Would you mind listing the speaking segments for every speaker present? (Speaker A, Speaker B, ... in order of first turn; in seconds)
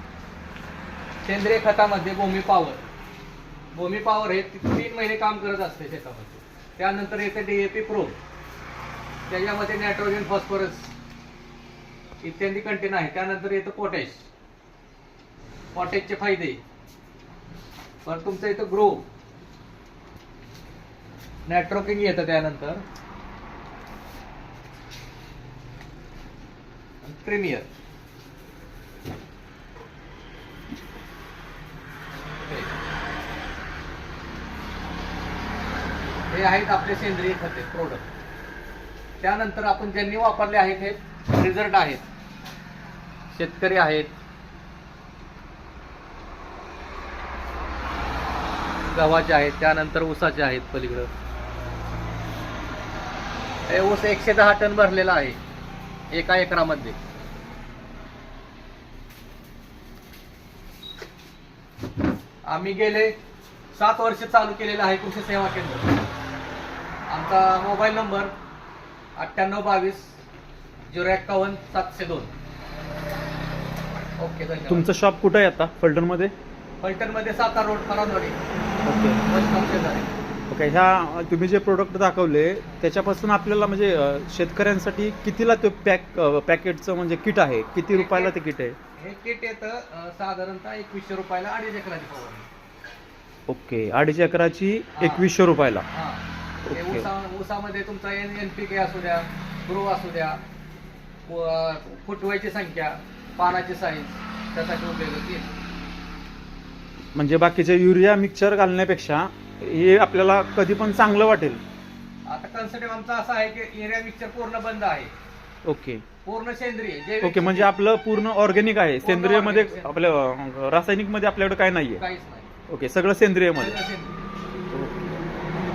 Speaker A: 1.2-2.9, 3.7-8.2, 9.3-10.9, 12.2-14.3, 15.7-16.6, 18.1-19.1, 21.5-22.8, 27.0-27.7, 32.4-32.7, 36.3-38.0, 39.2-42.0, 43.3-44.1, 48.9-51.1, 53.7-55.4, 56.1-57.0, 62.5-63.1, 63.7-66.0, 67.1-68.3, 69.2-70.1, 70.9-72.3, 74.2-74.9, 76.8-78.4, 79.2-80.1, 87.9-88.3, 89.0-92.5, 95.0-95.3, 95.9-100.4, 101.3-105.5, 112.3-115.1, 116.2-117.7, 119.0-120.0, 122.0-122.5, 123.6-124.3
Speaker B: 74.7-76.3, 78.8-79.2, 80.5-88.8, 93.5-95.9, 96.7-97.1, 107.1-111.6, 115.7-116.0, 117.2-122.0, 122.7-123.8, 124.7-125.2